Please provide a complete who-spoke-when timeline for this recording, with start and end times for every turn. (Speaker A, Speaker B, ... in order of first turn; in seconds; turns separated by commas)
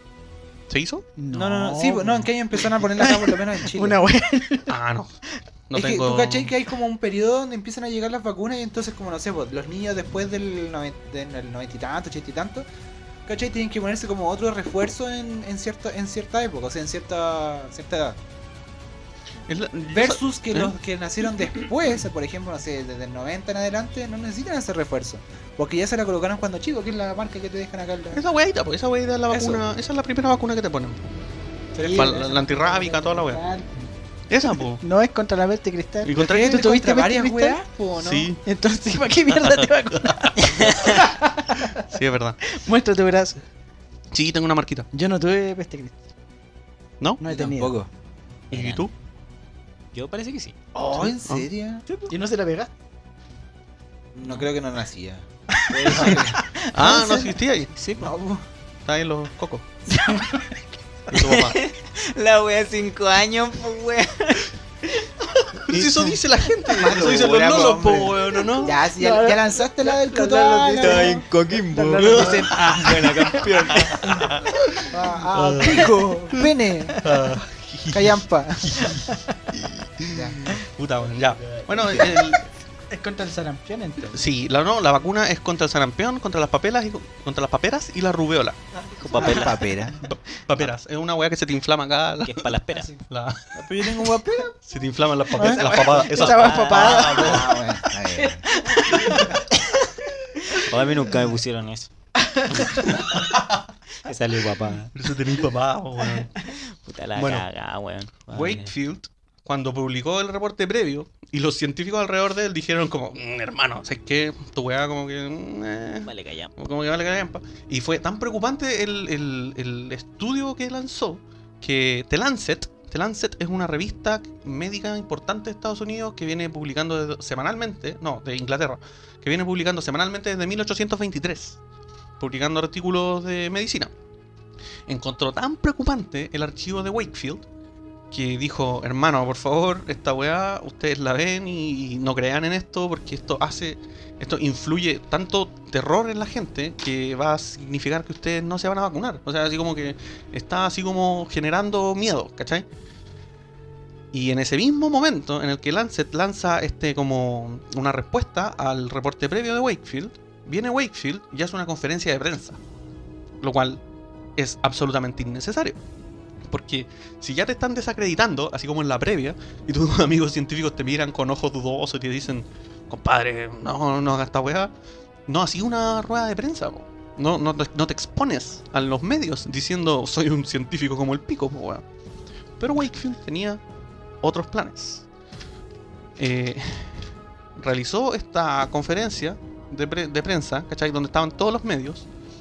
Speaker A: 0.7-1.1, Speaker B: 1.2-2.3, Speaker C: 1.3-4.0, Speaker B: 3.0-4.7, Speaker A: 4.7-5.1, Speaker A: 5.7-6.5, Speaker C: 5.7-12.7, Speaker C: 13.2-18.2, Speaker A: 19.5-20.7, Speaker C: 19.9-28.2, Speaker A: 28.1-31.1, Speaker C: 29.3-29.6, Speaker B: 31.7-33.9, Speaker A: 31.9-33.4, Speaker A: 34.3-34.8, Speaker B: 34.8-37.6, Speaker A: 36.0-36.7, Speaker C: 36.1-38.3, Speaker A: 38.0-38.4, Speaker B: 38.4-41.8, Speaker A: 39.4-40.7, Speaker D: 40.4-41.0, Speaker A: 41.8-42.4, Speaker B: 42.5-43.4, Speaker A: 44.1-44.9, Speaker B: 44.9-46.0, Speaker B: 47.2-47.8, Speaker C: 47.2-47.9, Speaker D: 48.5-48.9, Speaker A: 48.5-48.9, Speaker D: 49.9-50.6, Speaker C: 50.7-51.8, Speaker A: 51.2-51.5, Speaker B: 52.1-52.7, Speaker C: 54.1-56.4, Speaker B: 55.6-57.3, Speaker D: 55.9-56.2, Speaker A: 56.7-57.7, Speaker D: 57.7-58.1, Speaker C: 58.0-58.4, Speaker A: 58.9-59.7, Speaker B: 59.9-60.5, Speaker A: 61.1-61.6, Speaker D: 61.1-65.1, Speaker D: 65.6-66.2, Speaker A: 65.7-68.8, Speaker C: 66.8-71.2, Speaker B: 69.0-73.1, Speaker D: 70.8-74.2, Speaker C: 72.0-73.1, Speaker A: 72.0-72.8, Speaker A: 73.7-75.9, Speaker C: 74.9-77.0, Speaker A: 77.0-82.4, Speaker C: 77.9-78.9, Speaker B: 78.8-79.4, Speaker C: 80.1-80.4, Speaker C: 81.7-82.2, Speaker B: 82.9-84.2, Speaker A: 84.1-88.6, Speaker D: 89.0-89.6, Speaker C: 89.2-90.0, Speaker B: 89.2-89.4, Speaker A: 90.0-93.4, Speaker D: 92.2-92.9, Speaker C: 93.5-94.5, Speaker A: 94.7-97.5, Speaker B: 95.4-97.4, Speaker C: 95.4-95.8, Speaker D: 96.1-97.4, Speaker C: 96.8-98.5, Speaker B: 98.2-99.4, Speaker D: 100.6-101.9, Speaker B: 102.3-102.8, Speaker A: 102.7-103.4, Speaker D: 104.0-104.9, Speaker A: 104.9-106.3, Speaker D: 106.5-108.7, Speaker A: 107.2-107.4, Speaker A: 108.3-131.6, Speaker D: 116.0-116.5, Speaker A: 132.2-133.9, Speaker A: 134.9-137.4, Speaker A: 138.1-152.6, Speaker A: 154.1-162.6, Speaker A: 163.4-163.8, Speaker A: 164.4-165.8, Speaker A: 166.5-174.7, Speaker A: 175.3-181.8, Speaker A: 182.6-183.6, Speaker A: 184.2-185.0, Speaker A: 186.2-192.1